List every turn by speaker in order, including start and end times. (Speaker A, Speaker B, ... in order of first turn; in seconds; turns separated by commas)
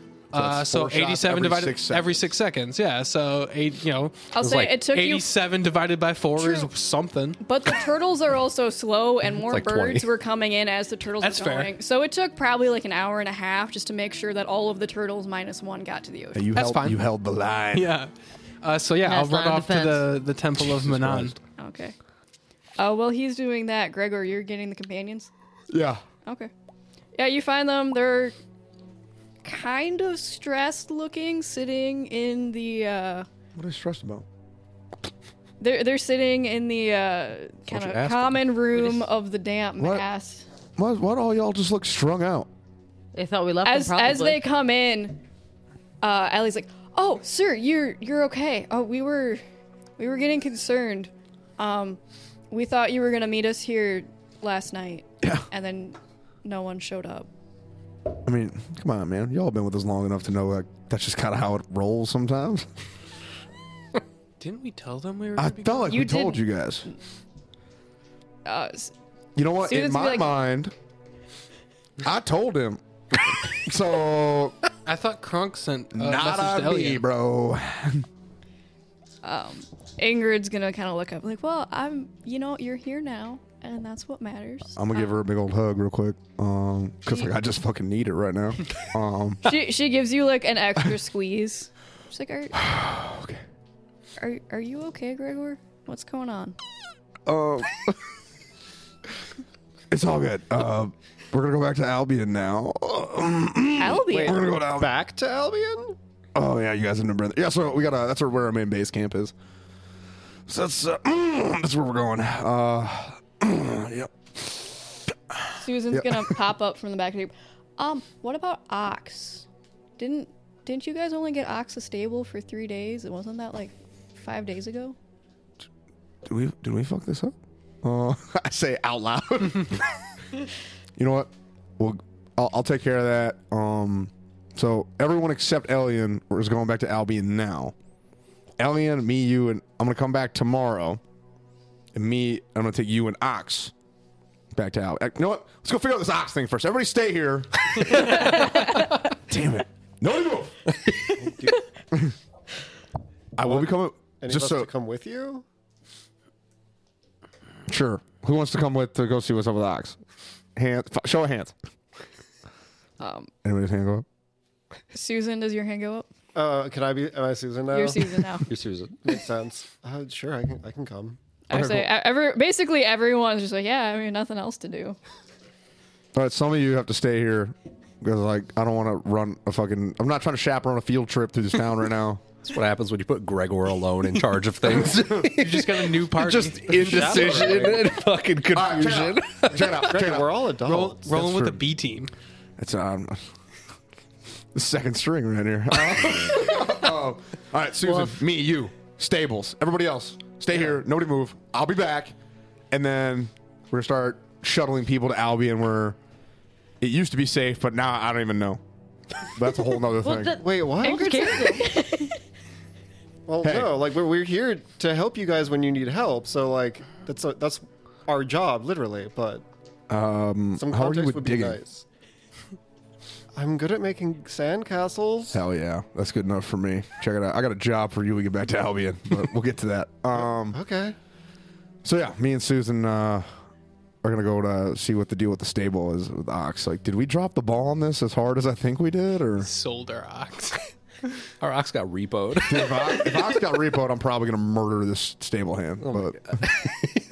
Speaker A: 0.3-7.4, Speaker B: 0.3-2.3, Speaker C: 4.3-5.3, Speaker D: 4.4-4.8, Speaker C: 6.3-6.7, Speaker C: 7.4-16.4, Speaker D: 9.3-10.1, Speaker A: 11.2-11.7, Speaker B: 16.3-17.9, Speaker A: 16.6-17.1, Speaker A: 17.7-18.1, Speaker A: 18.6-21.4, Speaker E: 19.0-20.1, Speaker B: 20.7-21.4, Speaker C: 21.6-21.9, Speaker C: 22.8-25.3, Speaker B: 25.7-26.0, Speaker C: 26.2-26.5, Speaker C: 27.1-28.3, Speaker C: 29.4-33.3, Speaker B: 33.5-34.2, Speaker C: 35.6-40.5, Speaker D: 37.7-38.8, Speaker B: 39.8-40.0, Speaker B: 40.8-42.5, Speaker E: 43.1-44.4, Speaker C: 43.6-45.2, Speaker C: 46.0-49.4, Speaker C: 50.0-52.0, Speaker C: 52.5-57.3, Speaker B: 55.2-55.5, Speaker B: 58.2-62.7, Speaker A: 64.4-66.0, Speaker B: 65.3-66.9, Speaker C: 65.9-66.9, Speaker C: 68.4-68.9, Speaker B: 69.3-70.7, Speaker C: 69.6-70.3, Speaker B: 72.0-74.6, Speaker A: 74.8-77.0, Speaker B: 75.9-78.0, Speaker C: 79.2-85.2, Speaker B: 84.8-89.5, Speaker C: 89.4-92.6, Speaker B: 92.5-93.4, Speaker C: 94.2-96.5, Speaker B: 97.2-98.0, Speaker B: 99.9-104.9, Speaker C: 103.8-104.4, Speaker F: 104.1-106.0, Speaker B: 106.3-109.3, Speaker B: 110.5-116.4, Speaker C: 115.5-119.5, Speaker C: 120.0-125.0, Speaker B: 126.2-130.0, Speaker B: 131.0-137.7, Speaker B: 138.6-141.0, Speaker B: 141.9-143.7, Speaker B: 144.5-150.8, Speaker F: 151.1-151.6, Speaker B: 153.4-154.7, Speaker F: 153.4-155.4, Speaker B: 157.7-160.0, Speaker B: 160.6-161.5, Speaker C: 163.0-163.3, Speaker B: 163.4-164.1, Speaker C: 164.9-166.1, Speaker F: 166.3-168.2, Speaker C: 167.7-168.5, Speaker D: 168.4-169.0, Speaker F: 169.0-171.2, Speaker C: 171.5-175.0, Speaker B: 171.5-171.9, Speaker B: 176.1-182.2, Speaker D: 182.4-189.9, Speaker A: 184.9-187.7, Speaker F: 186.7-187.9, Speaker B: 188.5-190.3, Speaker F: 189.5-191.2, Speaker A: 190.6-192.1, Speaker B: 191.1-191.6, Speaker B: 192.6-193.2, Speaker B: 194.5-202.1, Speaker B: 202.7-206.0, Speaker B: 206.8-208.6, Speaker B: 209.2-210.4, Speaker E: 210.0-212.1, Speaker F: 210.3-211.3, Speaker C: 210.8-212.2, Speaker F: 213.3-219.4, Speaker B: 213.4-213.8, Speaker B: 219.9-221.6, Speaker F: 220.6-221.8, Speaker F: 223.3-225.4, Speaker B: 225.3-230.6, Speaker F: 230.3-230.9, Speaker B: 231.8-233.3, Speaker B: 234.0-239.5, Speaker A: 239.4-240.6, Speaker D: 241.4-243.1, Speaker B: 242.4-246.6, Speaker D: 245.8-247.0